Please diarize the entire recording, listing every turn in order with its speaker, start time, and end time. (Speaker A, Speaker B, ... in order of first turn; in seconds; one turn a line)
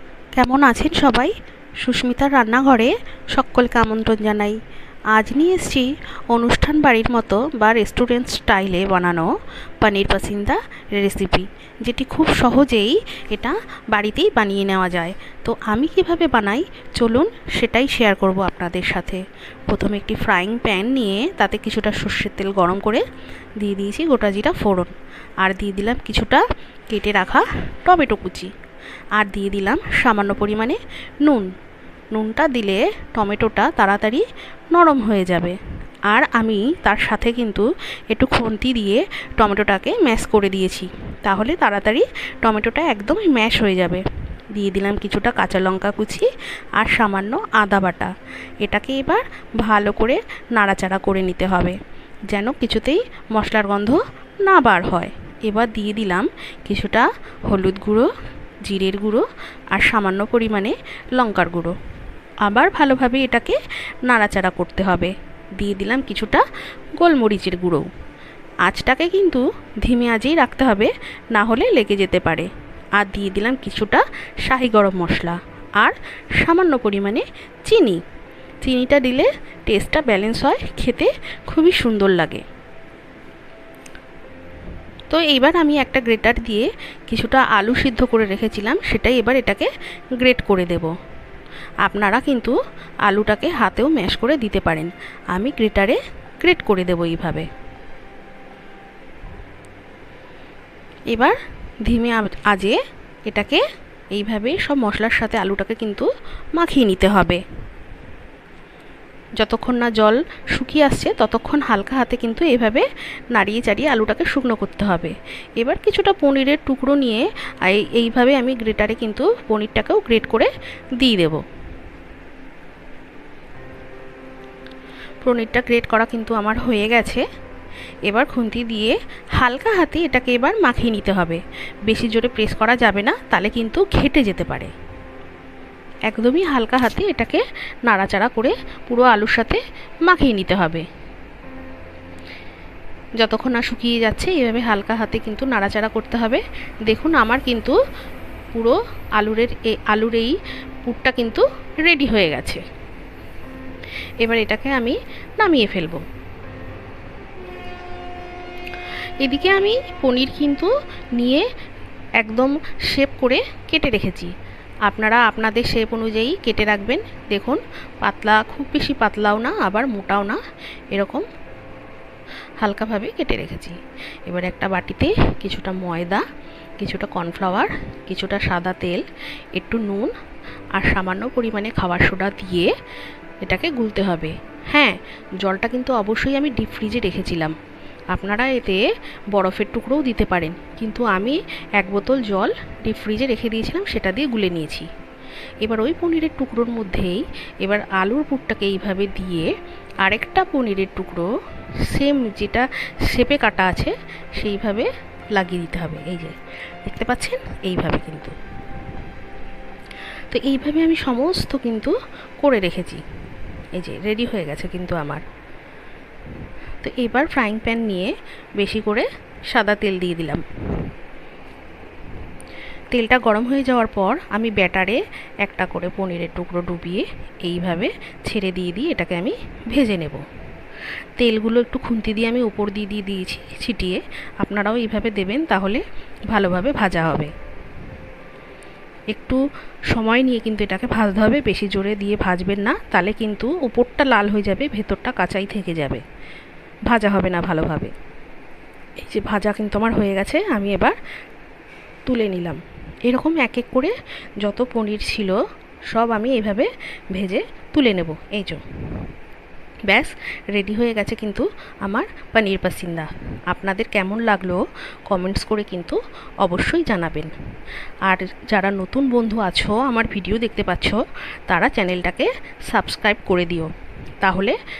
Speaker A: 0.3-4.6
Speaker A: 5.1-9.3
Speaker A: 9.8-23.1
Speaker A: 23.6-28.5
Speaker A: 29.2-31.5
Speaker A: 32.1-35.6
Speaker A: 36.1-44.0
Speaker A: 44.5-48.1
Speaker A: 48.6-51.8
Speaker A: 52.3-58.1
Speaker A: 58.6-61.7
Speaker A: 62.5-66.4
Speaker A: 67.0-67.8
Speaker A: 68.7-78.0
Speaker A: 78.6-82.4
Speaker A: 85.1-90.9
Speaker A: 91.8-92.5
Speaker A: 93.1-97.5
Speaker A: 101.1-103.6
Speaker A: 104.1-107.4
Speaker A: 109.4-121.4
Speaker A: 125.2-127.2
Speaker A: 128.1-134.7
Speaker A: 136.1-140.8
Speaker A: 143.2-147.8
Speaker A: 148.5-152.6
Speaker A: 154.2-156.0
Speaker A: 159.2-161.4
Speaker A: 162.2-164.3
Speaker A: 164.9-170.4
Speaker A: 170.9-171.2
Speaker A: 172.6-176.2
Speaker A: 176.8-179.0
Speaker A: 179.6-180.1
Speaker A: 180.8-182.7
Speaker A: 183.4-187.6
Speaker A: 188.1-188.8
Speaker A: 189.3-194.9
Speaker A: 195.6-201.3
Speaker A: 201.9-208.3
Speaker A: 210.3-213.0
Speaker A: 213.7-215.2
Speaker A: 216.8-220.4
Speaker A: 222.9-230.2
Speaker A: 231.2-237.3
Speaker A: 239.1-246.0
Speaker A: 246.9-247.9
Speaker A: 249.0-251.0
Speaker A: 252.1-255.4
Speaker A: 255.9-258.6
Speaker A: 259.9-267.3
Speaker A: 268.0-273.7
Speaker A: 274.2-274.6